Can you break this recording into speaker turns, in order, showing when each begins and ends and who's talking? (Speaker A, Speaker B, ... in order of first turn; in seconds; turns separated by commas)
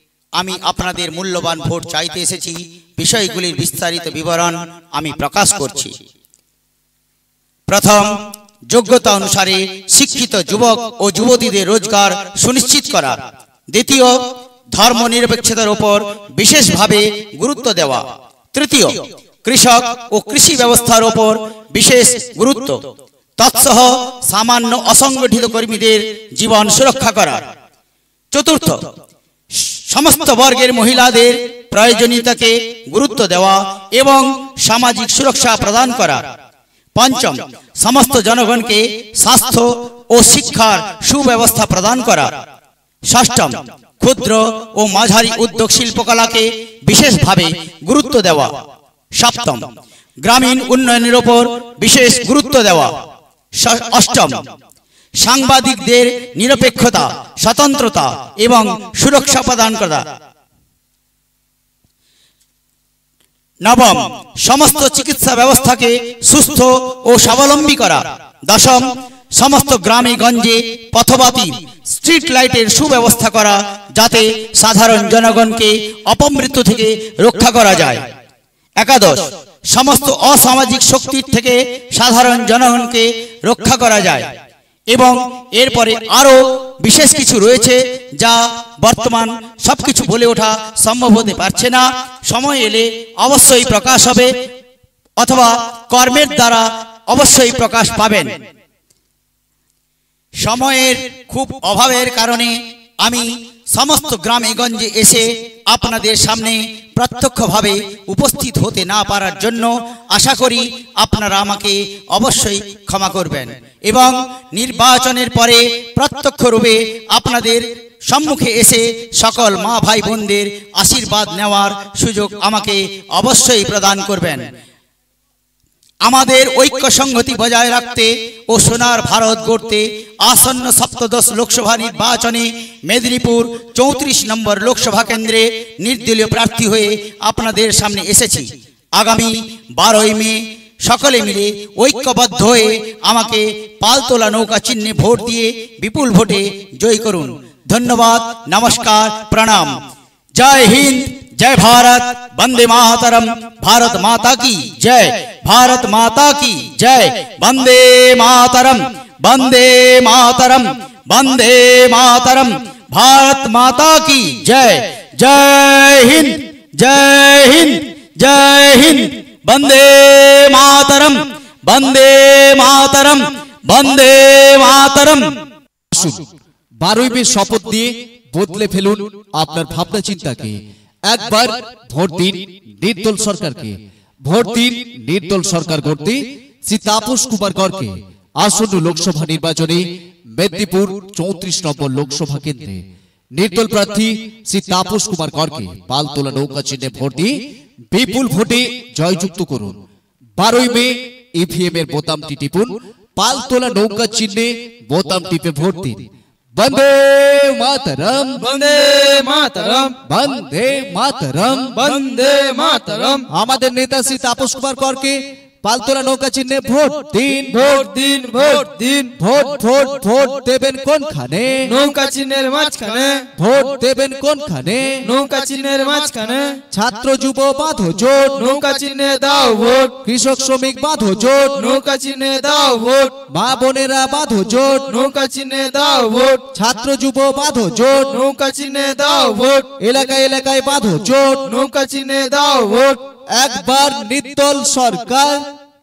Speaker A: 0.4-5.9, Speaker A: 7.7-8.1, Speaker A: 8.7-13.2, Speaker A: 13.7-14.1, Speaker A: 14.7-22.8, Speaker A: 23.4-27.4, Speaker A: 28.3-28.9, Speaker A: 29.9-36.2, Speaker A: 37.0-42.3, Speaker A: 43.1-48.5, Speaker A: 49.2-49.6, Speaker A: 50.2-52.9, Speaker A: 53.6-54.4, Speaker A: 55.2-60.0, Speaker A: 63.6-78.0, Speaker A: 78.8-84.3, Speaker A: 84.9-94.3, Speaker A: 95.2-98.3, Speaker A: 100.4-124.4, Speaker A: 126.0-149.7, Speaker A: 150.4-175.2, Speaker B: 175.9-176.3, Speaker B: 176.8-180.6, Speaker B: 181.1-189.8, Speaker B: 190.3-192.8, Speaker B: 193.3-197.3, Speaker B: 197.9-199.8, Speaker B: 200.4-206.0, Speaker B: 206.5-208.4, Speaker C: 208.4-209.9, Speaker B: 210.0-211.8, Speaker C: 211.7-213.2, Speaker B: 213.3-217.6, Speaker C: 217.5-219.1, Speaker B: 219.2-221.7, Speaker C: 221.7-223.2, Speaker B: 223.3-225.0, Speaker C: 225.0-226.6, Speaker B: 226.7-228.5, Speaker C: 228.4-229.9, Speaker B: 230.0-231.7, Speaker C: 231.6-233.2, Speaker B: 233.3-234.9, Speaker C: 234.9-236.4, Speaker B: 236.5-238.2, Speaker C: 238.1-239.7, Speaker B: 239.8-241.5, Speaker C: 241.4-243.0, Speaker B: 243.3-245.4